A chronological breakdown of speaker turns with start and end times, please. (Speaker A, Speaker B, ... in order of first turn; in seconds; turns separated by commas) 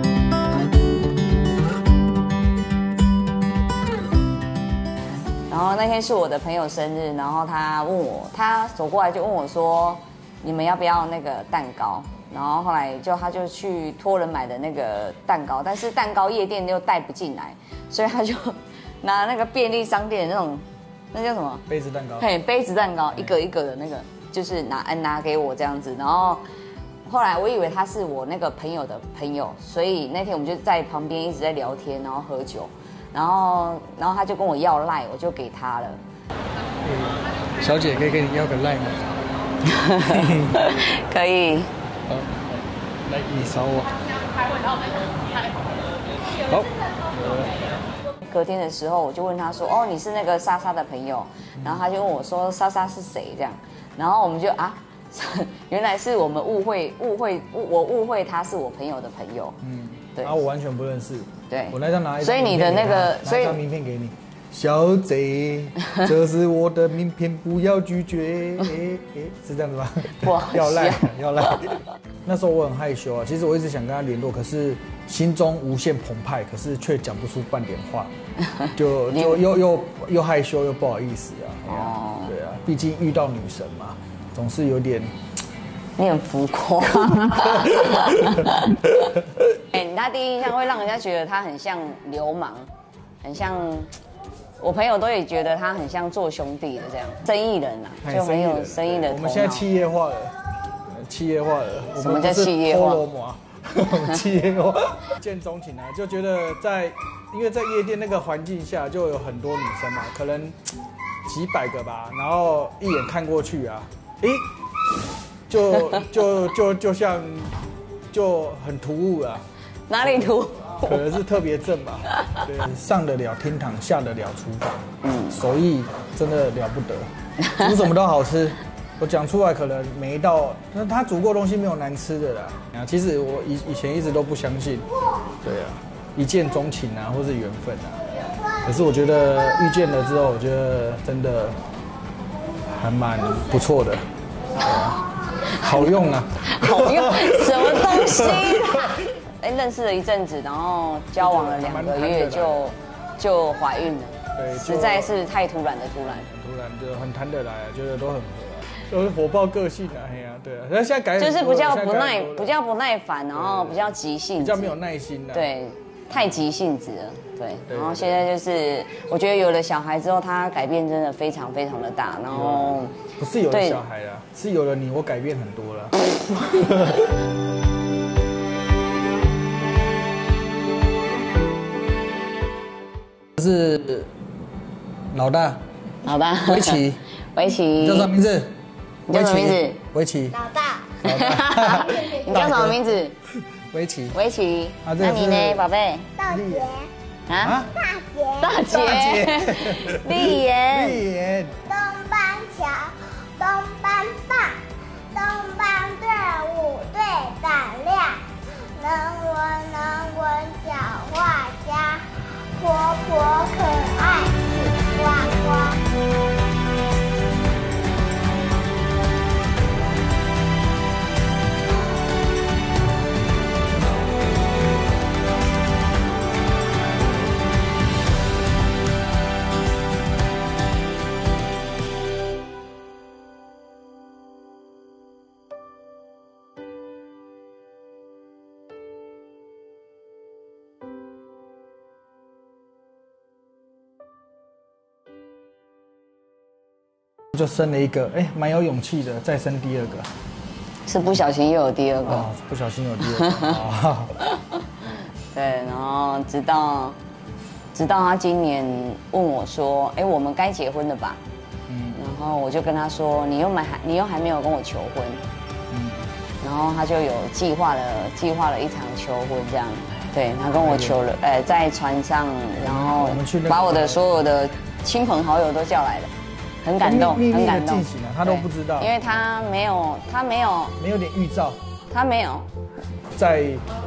Speaker A: 5.5-21.7, Speaker B: 21.7-22.3, Speaker A: 22.2-26.4, Speaker A: 27.0-36.0, Speaker B: 36.8-39.0, Speaker A: 39.6-41.7, Speaker B: 40.0-40.6, Speaker B: 42.1-43.9, Speaker B: 46.4-47.6, Speaker A: 48.2-59.6, Speaker B: 59.6-78.1, Speaker A: 61.5-63.6, Speaker A: 70.1-71.6, Speaker A: 78.6-79.4, Speaker B: 78.7-85.1, Speaker A: 81.7-82.3, Speaker A: 86.0-88.9, Speaker B: 87.3-89.4, Speaker A: 89.7-92.7, Speaker A: 93.2-93.9, Speaker A: 94.6-99.7, Speaker B: 98.0-100.3, Speaker B: 100.9-110.6, Speaker A: 102.0-103.0, Speaker B: 111.2-114.5, Speaker B: 115.5-117.6, Speaker B: 118.1-119.4, Speaker A: 119.9-121.0, Speaker B: 120.0-134.9, Speaker A: 122.1-122.4, Speaker A: 125.0-125.4, Speaker B: 135.4-141.6, Speaker B: 142.7-149.0, Speaker A: 144.6-156.2, Speaker B: 151.2-152.7, Speaker B: 154.3-155.1, Speaker B: 156.0-162.5, Speaker A: 161.2-164.8, Speaker B: 163.3-165.5, Speaker A: 165.3-173.0, Speaker B: 167.7-168.3, Speaker B: 172.3-177.2, Speaker A: 173.5-173.8, Speaker B: 183.4-184.1, Speaker B: 185.1-185.6, Speaker A: 186.0-188.1, Speaker B: 186.4-187.0, Speaker B: 187.8-188.6, Speaker A: 189.1-189.8, Speaker B: 189.1-190.4, Speaker C: 190.4-191.0, Speaker B: 191.0-194.2, Speaker A: 191.0-193.1, Speaker A: 194.1-196.1, Speaker B: 194.8-195.6, Speaker C: 196.2-196.9, Speaker B: 196.3-196.7, Speaker A: 197.3-197.6, Speaker B: 197.4-197.8, Speaker C: 197.7-198.7, Speaker A: 198.4-201.0, Speaker B: 198.6-201.6, Speaker C: 201.7-215.8, Speaker B: 247.3-250.1, Speaker A: 250.8-252.3, Speaker B: 252.1-254.2, Speaker A: 253.2-253.6, Speaker A: 254.2-257.0, Speaker A: 257.7-261.2, Speaker B: 261.7-262.0, Speaker A: 261.9-265.2, Speaker B: 265.7-266.1, Speaker A: 266.4-276.1, Speaker B: 270.6-271.0, Speaker B: 272.6-274.0, Speaker A: 276.6-280.8, Speaker B: 276.8-278.9, Speaker B: 280.8-281.6, Speaker A: 281.9-282.5, Speaker B: 283.1-283.6